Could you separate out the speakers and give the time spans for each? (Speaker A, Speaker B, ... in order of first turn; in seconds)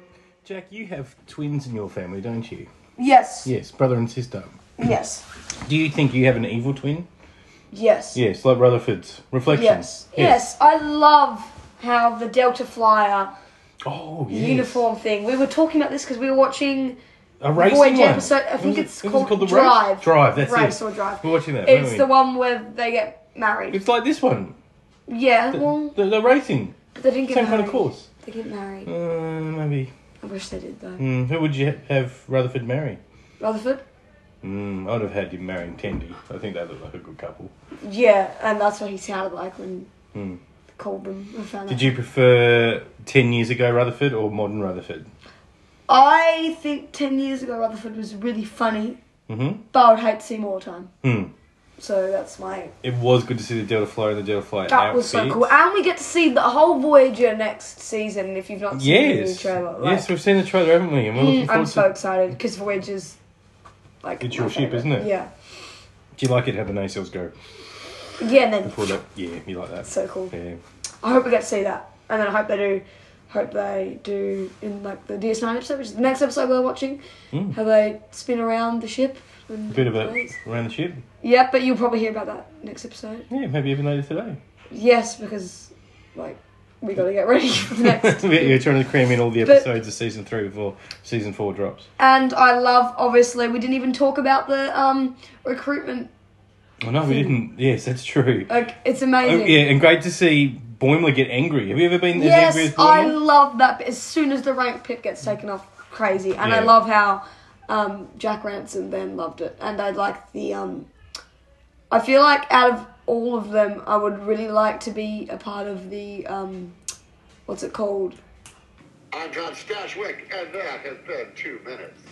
Speaker A: 0.4-2.7, 3.4-4.5, 5.6-7.1, 8.1-10.5, 13.8-14.8, 17.4-22.1, 23.7-24.6, 25.5-26.7, 27.2-28.1, 28.9-29.9, 31.0-33.0, 34.4-37.5, 40.1-40.4, 41.7-45.1, 49.3-49.6, 51.0-51.3, 52.8-55.5, 58.7-61.9, 64.2-65.1, 66.2-67.3, 68.6-70.6, 77.3-77.6, 79.7-81.0, 83.3-84.4, 87.8-91.9, 96.8-98.5, 99.2-103.2, 106.4-106.8
Speaker B: 3.0-3.5, 4.8-5.2, 7.7-8.2, 9.5-13.3, 14.3-17.0, 17.6-23.8, 25.1-25.9, 26.9-28.9, 30.2-31.0, 33.4-33.8, 37.8-39.9, 40.7-42.0, 45.9-49.0, 49.7-50.9, 51.8-52.8, 54.7-60.1, 61.1-63.2, 64.0-65.3, 68.2-68.9, 69.8-70.3, 71.0-77.0, 77.5-80.4, 81.2-83.3, 84.7-88.6, 89.4-89.7, 92.0-96.1, 97.0-97.4, 98.5-99.6, 102.1-110.9, 111.9-116.8, 117.5-118.2
Speaker C: 119.1-122.0